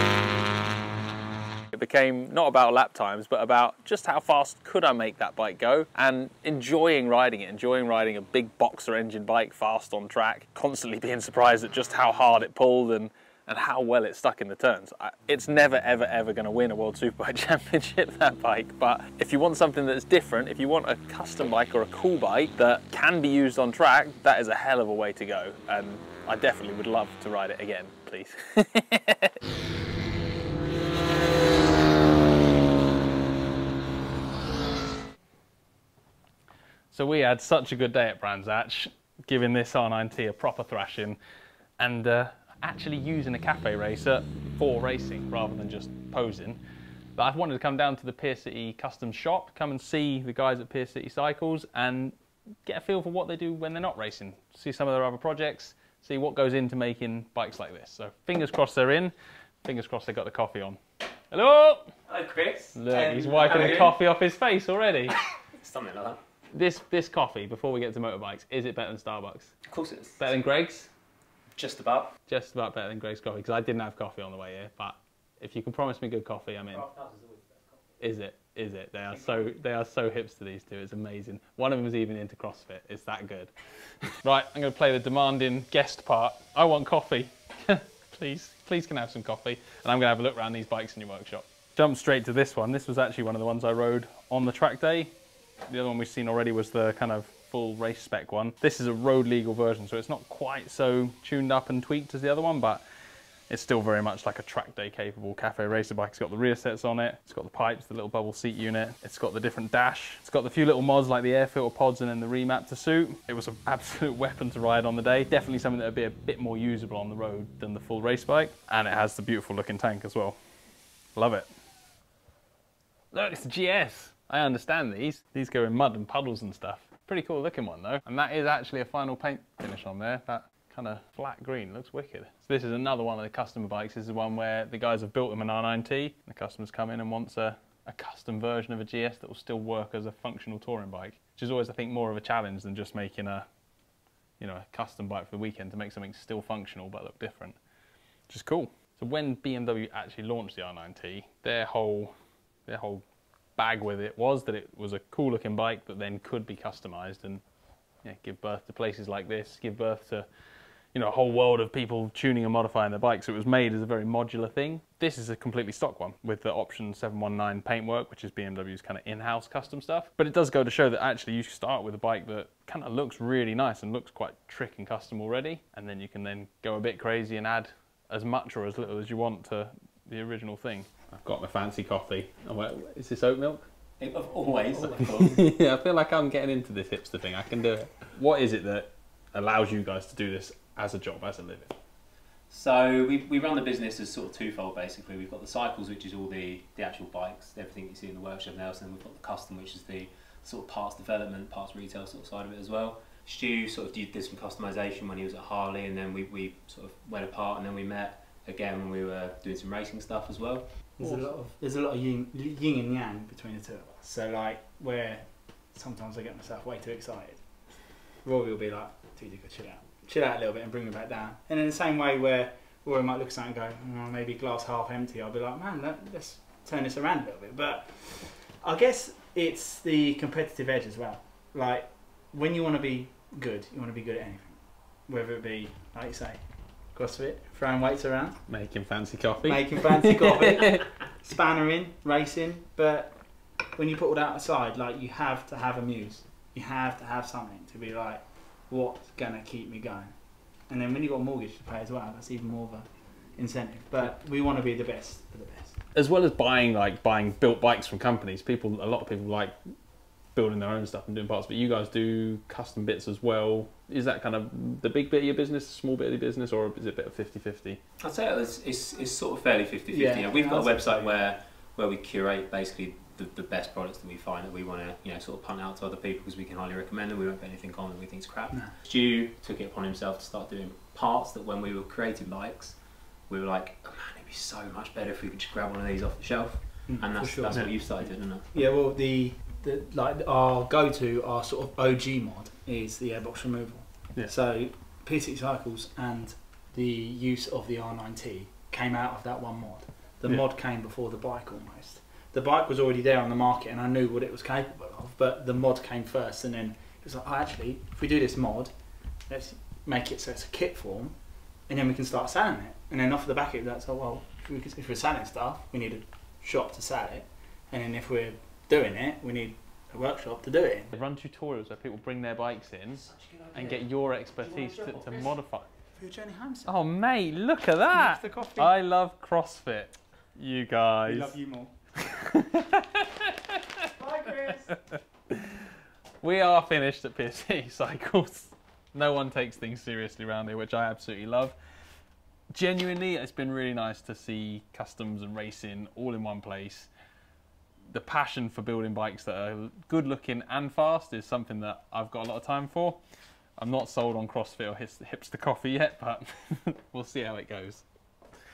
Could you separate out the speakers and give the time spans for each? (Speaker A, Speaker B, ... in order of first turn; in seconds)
Speaker A: 1.7-29.4, 36.9-41.2, 41.8-46.6, 47.1-60.8, 61.3-61.9, 62.7-65.1, 66.5-69.5, 70.2-70.9, 72.3-76.8, 78.0-83.5, 84.2-95.1, 95.7-102.8, 103.5-120.4, 121.2-121.5, 123.1-143.4, 144.4-147.6, 148.3-152.1, 152.7-153.0, 153.6-157.4, 158.0-160.2, 160.9-183.7, 184.7-191.7, 211.0-211.3, 238.5-240.9, 255.9-259.5, 260.3-267.8, 320.9-325.7, 326.6-331.4, 332.0-333.9, 334.7-335.5, 336.2-341.6, 342.5-346.9, 347.9-353.0, 353.6-357.8
Speaker B: 62.1-64.0, 65.1-66.2, 69.7-70.3, 71.5-72.1, 76.7-77.6, 184.0-185.5, 192.5-211.0, 268.0-288.5, 323.2-323.8, 324.4-325.2
Speaker C: 211.0-238.5, 239.4-243.2, 243.7-250.1, 250.7-255.8, 269.9-271.2, 286.9-308.7, 309.3-320.9, 325.9-326.7, 327.9-328.7, 331.0-331.7, 333.9-334.7